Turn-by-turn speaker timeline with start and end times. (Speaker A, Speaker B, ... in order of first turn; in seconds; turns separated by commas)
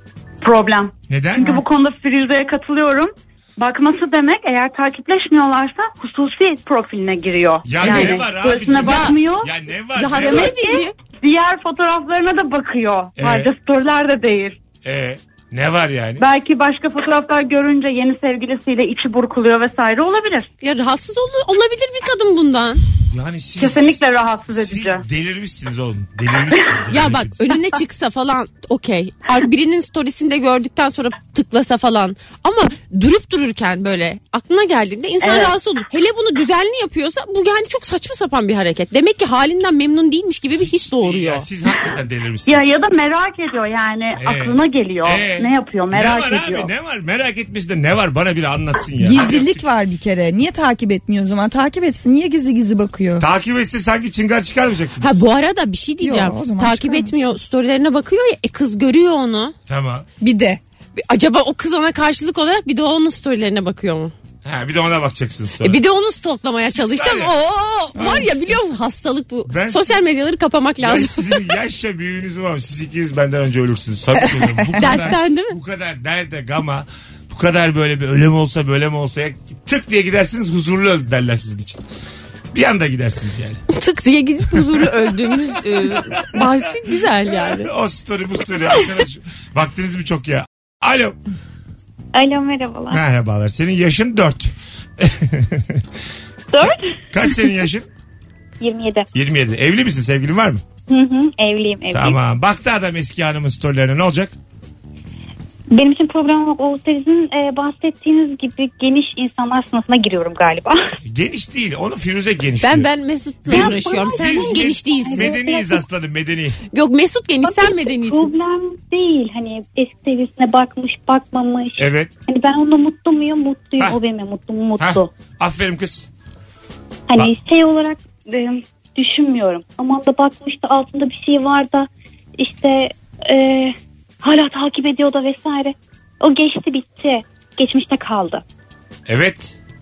Speaker A: 0.4-9.5, Speaker B: 1.1-1.5, Speaker B: 7.6-10.6, Speaker C: 7.8-8.2, Speaker C: 9.9-10.9, Speaker A: 10.1-14.6, Speaker B: 13.2-13.5, Speaker B: 14.8-16.2, Speaker A: 16.2-20.5, Speaker C: 20.6-22.8, Speaker B: 23.1-27.4, Speaker A: 23.6-25.0, Speaker C: 26.9-41.5, Speaker A: 35.2-35.5, Speaker B: 40.6-42.7, Speaker A: 42.5-46.7, Speaker B: 44.1-49.6, Speaker D: 49.0-53.2, Speaker B: 53.2-55.2, Speaker C: 55.0-59.5, Speaker D: 56.0-57.3, Speaker B: 59.7-60.1, Speaker D: 60.2-60.6, Speaker C: 61.0-64.1, Speaker B: 64.4-65.8, Speaker C: 65.6-71.5, Speaker B: 66.7-67.3, Speaker D: 68.0-68.5, Speaker B: 69.5-70.0, Speaker B: 70.8-81.8, Speaker D: 74.2-75.0, Speaker C: 74.8-75.5, Speaker B: 82.5-83.6, Speaker C: 83.7-87.7, Speaker B: 84.5-84.9, Speaker B: 85.8-91.2, Speaker E: 92.1-93.0, Speaker B: 92.9-95.8, Speaker E: 96.5-96.8, Speaker B: 96.6-97.9, Speaker E: 98.6-99.1, Speaker B: 99.1-100.6, Speaker E: 100.9-102.2, Speaker B: 101.9-104.3, Speaker E: 105.7-110.9, Speaker B: 111.0-112.9, Speaker C: 112.6-115.3, Speaker B: 113.4-116.6, Speaker E: 113.5-115.8, Speaker C: 116.7-118.3, Speaker E: 117.4-125.1, Speaker B: 121.8-122.1, Speaker B: 124.8-126.1, Speaker E: 127.1-131.9, Speaker E: 132.4-138.4, Speaker B: 139.1-139.6